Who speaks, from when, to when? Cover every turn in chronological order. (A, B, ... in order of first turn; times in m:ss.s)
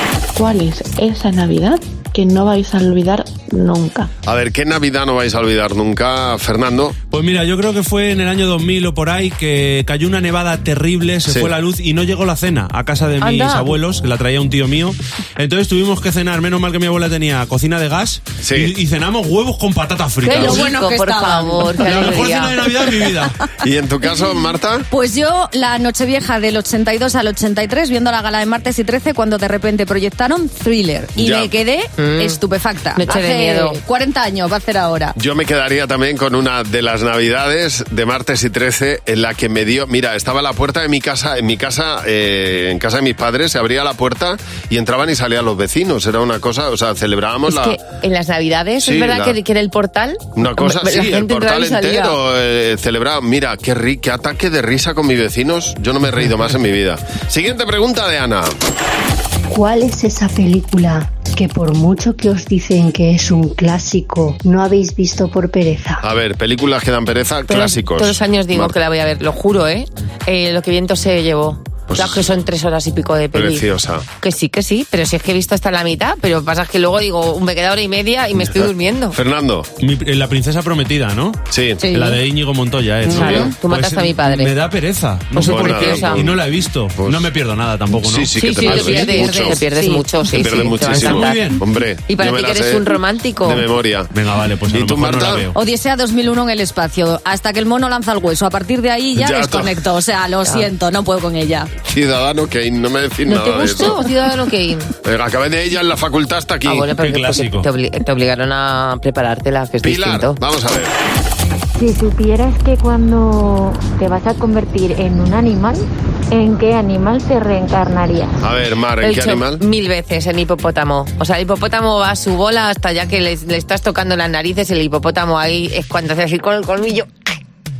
0:00.4-0:04.0 A
0:04.2-0:07.0 B
0:07.1-0:20.7 C
0:13.2-0:13.8 D
0:18.4-0:18.7 B
0:20.2-0:22.9 D
0:20.2-0:22.2 E
0:21.8-0:23.4 C
0:23.6-0:24.9 B
0:24.9-0:35.1 E
0:31.2-0:31.5 B
0:32.0-0:32.4 D
0:32.9-0:33.8 D
0:35.2-0:47.8 B
0:47.5-0:52.2 D
0:48.8-0:49.4 B
0:50.4-0:58.5 B
0:59.5-1:06.0 F
1:06.0-1:08.7 B
1:07.5-1:13.7 D
1:11.9-1:12.3 B
1:13.3-1:14.0 B
1:14.2-1:19.2 D
1:19.1-1:19.7 B
1:19.8-1:21.4 C
1:21.5-1:21.8 B
1:21.8-1:22.1 D
1:21.9-1:29.0 C
1:23.0-1:24.6 D
1:23.1-1:23.5 B
1:25.3-1:26.3 D
1:25.4-1:27.3 B
1:27.9-1:29.6 B
1:28.4-1:33.6 D
1:28.4-1:30.7 E
1:30.4-1:32.8 B
1:30.9-1:31.6 C
1:33.4-1:34.1 B
1:34.1-1:35.6 C
1:34.7-1:35.5 B
1:35.5-1:41.7 E
1:39.2-1:39.8 B
1:41.9-1:44.0 B
1:43.3-1:44.9 D
1:45.0-1:46.9 B
1:46.6-1:50.4 D
1:47.0-1:47.7 C
1:49.8-1:50.9 B
1:51.8-1:58.3 G
1:58.4-1:59.6 B
1:59.0-2:07.1 D